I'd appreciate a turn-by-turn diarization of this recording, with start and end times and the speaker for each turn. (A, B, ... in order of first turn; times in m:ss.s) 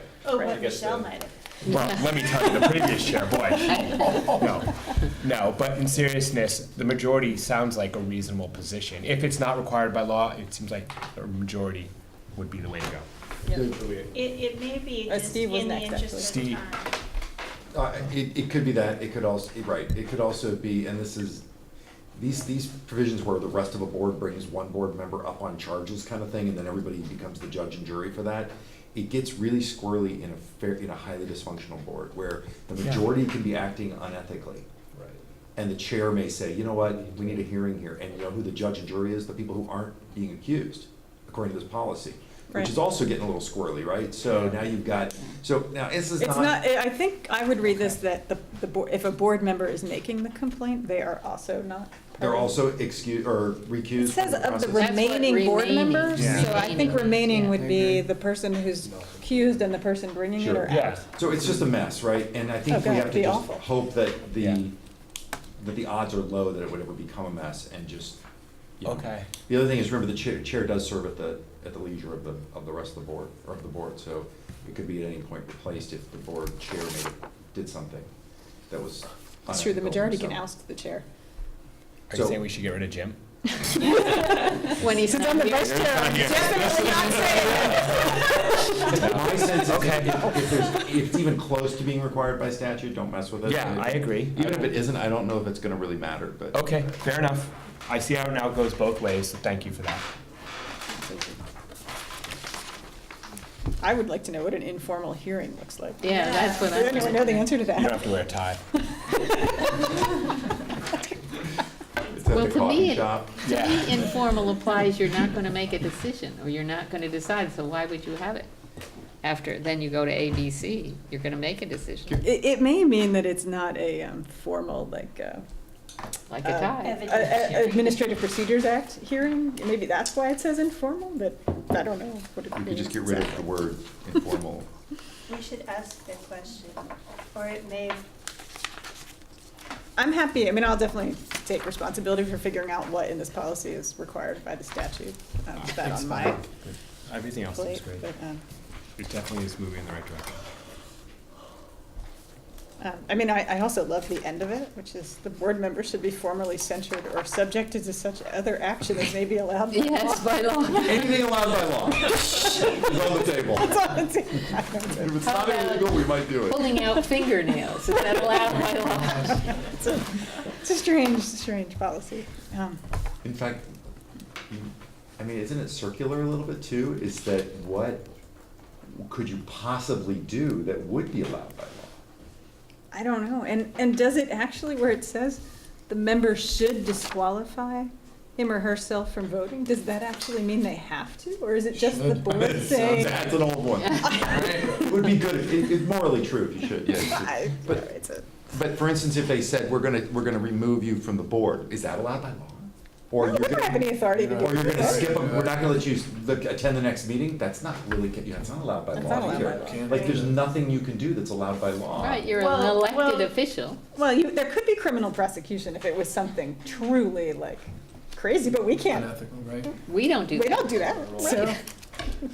0:00.2-0:01.4 A
0:00.4-0:01.0 B
0:01.6-0:14.0 C
0:01.6-0:02.0 D
0:02.0-0:02.4 A
0:03.6-0:04.4 D
0:04.1-0:04.4 B
0:14.1-0:16.9 A
0:15.1-0:16.4 E
0:16.2-0:16.6 C
0:17.7-0:21.4 F
0:22.1-0:34.7 F
0:35.6-0:46.6 F
0:44.3-0:44.6 C
0:46.2-0:52.6 E
0:52.2-0:55.0 F
0:54.0-1:01.0 E
0:54.8-0:57.6 D
0:56.1-0:56.8 C
0:56.2-0:57.2 B
1:00.4-1:04.7 F
1:00.7-1:01.1 C
1:02.7-1:03.7 E
1:04.4-1:04.6 C
1:05.6-1:08.2 F
1:08.8-1:18.1 F
1:08.8-1:09.3 C
1:18.7-1:20.4 F
1:19.5-1:21.0 E
1:22.1-1:23.2 C
1:22.1-1:22.4 F
1:23.5-1:30.4 E
1:23.8-1:27.9 D
1:25.6-1:30.4 C
1:28.8-1:37.0 F
1:33.4-1:34.7 C
1:36.5-1:40.0 C
1:43.8-1:48.1 E
1:46.0-1:47.6 D
1:46.2-1:46.6 A
1:47.7-1:48.6 C
1:48.8-1:51.0 E
1:52.1-1:53.4 F
1:52.3-1:58.5 D
1:53.4-1:54.0 C
1:59.2-2:02.2 D
2:02.2-2:05.4 E
2:06.3-2:08.0 D
2:06.4-2:13.5 E
2:06.8-2:07.7 A
2:12.6-2:14.7 F
2:15.3-2:18.0 A
2:20.0-2:26.4 E
2:25.6-2:28.0 C
2:27.5-2:28.4 E
2:29.0-2:30.4 C
2:32.8-2:40.3 E
2:39.7-2:41.2 D
2:40.8-2:43.8 F
2:42.1-2:42.9 E
2:43.5-2:45.2 E
2:44.9-2:46.8 F
2:45.2-2:49.5 D
2:49.4-2:52.8 E
2:53.2-2:53.7 F
2:54.5-2:58.0 F
2:58.9-3:01.9 F
3:02.9-3:13.4 E
3:11.9-3:13.0 B
3:12.2-3:17.8 F
3:14.0-3:14.5 E
3:14.4-3:14.8 B
3:16.9-3:18.3 E
3:18.5-3:32.3 F
3:23.2-3:25.2 E
3:24.2-3:25.7 B
3:28.9-3:30.2 E
3:29.0-3:30.5 B
3:32.0-3:33.8 D
3:32.3-3:33.3 A
3:33.9-3:39.2 E
3:38.9-3:39.7 B
3:39.8-3:41.5 D
3:40.3-3:41.6 E
3:40.8-3:41.4 B